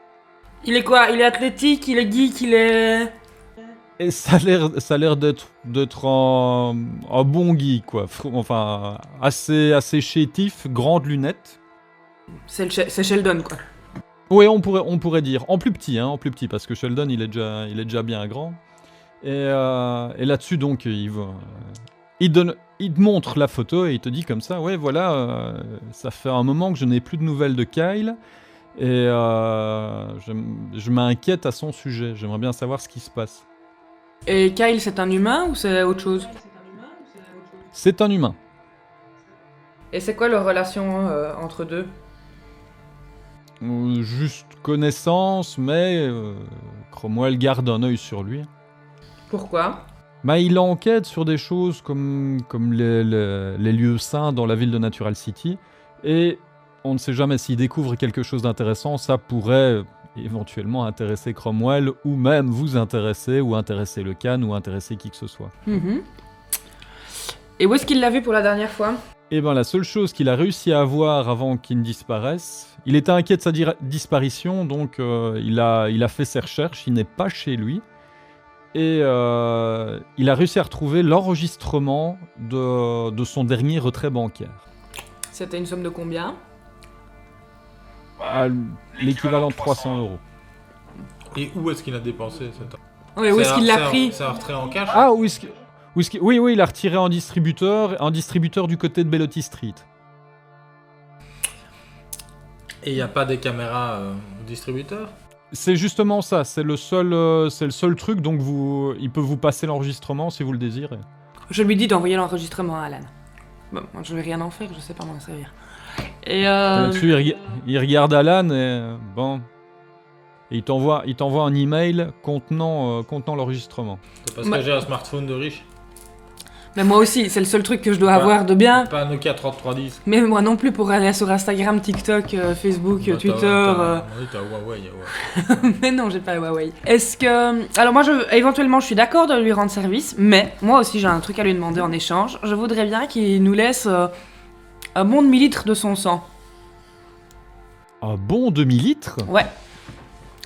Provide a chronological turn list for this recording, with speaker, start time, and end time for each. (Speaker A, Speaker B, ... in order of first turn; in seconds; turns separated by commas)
Speaker A: 0.6-3.1, Speaker B: 4.0-11.6, Speaker A: 12.5-13.6, Speaker B: 14.3-18.6, Speaker B: 19.2-28.2, Speaker B: 28.7-33.4, Speaker A: 34.2-36.5, Speaker B: 37.7-38.4, Speaker A: 39.9-41.9, Speaker B: 43.6-48.5, Speaker A: 49.3-49.8, Speaker B: 50.2-65.5, Speaker A: 65.7-66.0, Speaker A: 67.6-69.0, Speaker B: 69.3-77.8, Speaker B: 78.7-84.6, Speaker A: 85.3-86.4, Speaker B: 88.2-90.2, Speaker C: 91.3-92.8, Speaker A: 93.2-94.2, Speaker C: 93.3-95.0, Speaker B: 94.9-99.8, Speaker C: 102.8-105.1, Speaker B: 105.5-111.0, Speaker A: 111.5-113.1, Speaker A: 113.7-115.5, Speaker A: 116.2-117.3, Speaker B: 116.7-119.5, Speaker B: 120.5-124.0, Speaker C: 124.2-125.7, Speaker A: 126.7-128.9, Speaker C: 128.1-130.0, Speaker A: 130.1-134.1, Speaker C: 133.0-135.6, Speaker A: 135.2-144.1, Speaker A: 144.9-146.3, Speaker B: 148.0-149.3